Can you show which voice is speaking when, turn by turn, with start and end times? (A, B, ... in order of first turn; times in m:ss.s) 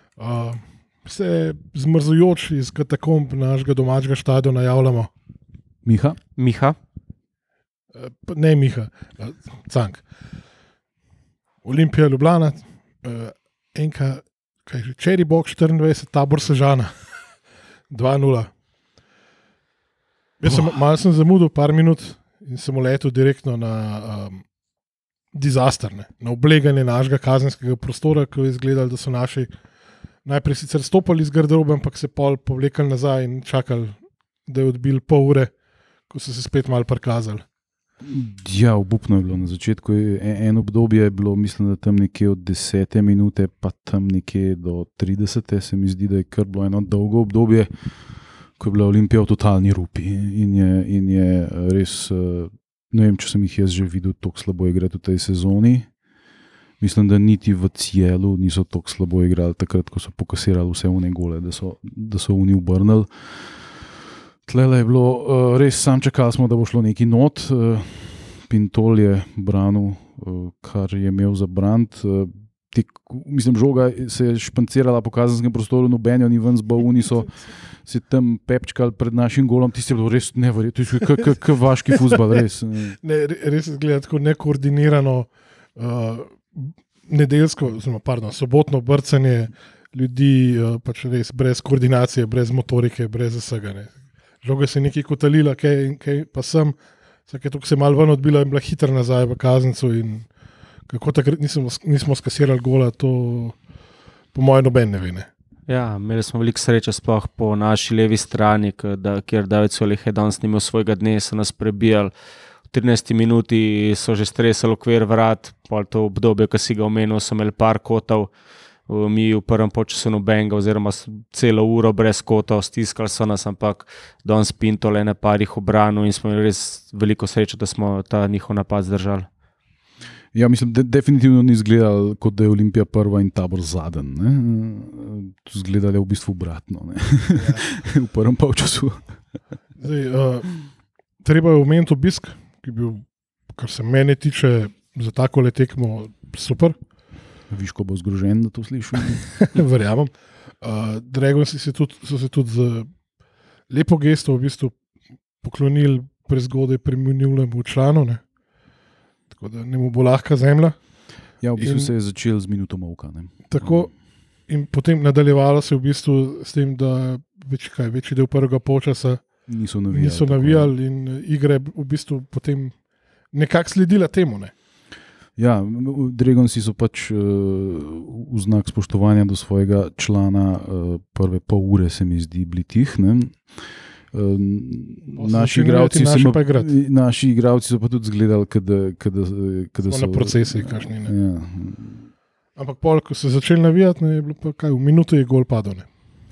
0:00.2-0:05.1 A
0:05.8-0:06.2 B
0:06.4-0:06.8 C
0:07.9-0:10.0 A
0:11.6-0:17.0 A
0:17.9-0:18.5 A
0:20.4-0:24.5 A
0:25.3-0:29.5 A
0:30.2-0:35.5 A
0:36.1-0:37.4 A
0:38.0-0:47.7 B
0:48.6-0:55.9 B
0:56.8-1:03.8 B
1:04.4-1:23.0 B
1:23.0-1:40.3 A
1:40.9-1:43.6 A
1:44.3-1:45.3 A
1:45.7-1:52.1 C
1:52.7-1:58.3 C
1:58.9-2:09.3 C
2:10.3-2:19.1 B
2:17.3-2:17.7 A
2:19.8-2:20.7 A
2:21.2-2:26.8 A
2:27.5-2:29.4 B
2:29.4-2:32.9 A
2:33.7-2:34.7 A
2:35.4-2:38.2 A
2:39.3-2:41.9 A
2:41.4-2:43.9 B
2:43.5-2:43.9 A
2:44.5-2:52.8 A
2:49.5-2:50.7 B
2:53.3-2:54.5 A
2:55.4-3:12.1 B
3:05.2-3:06.7 A
3:09.9-3:11.1 A
3:12.6-3:15.9 A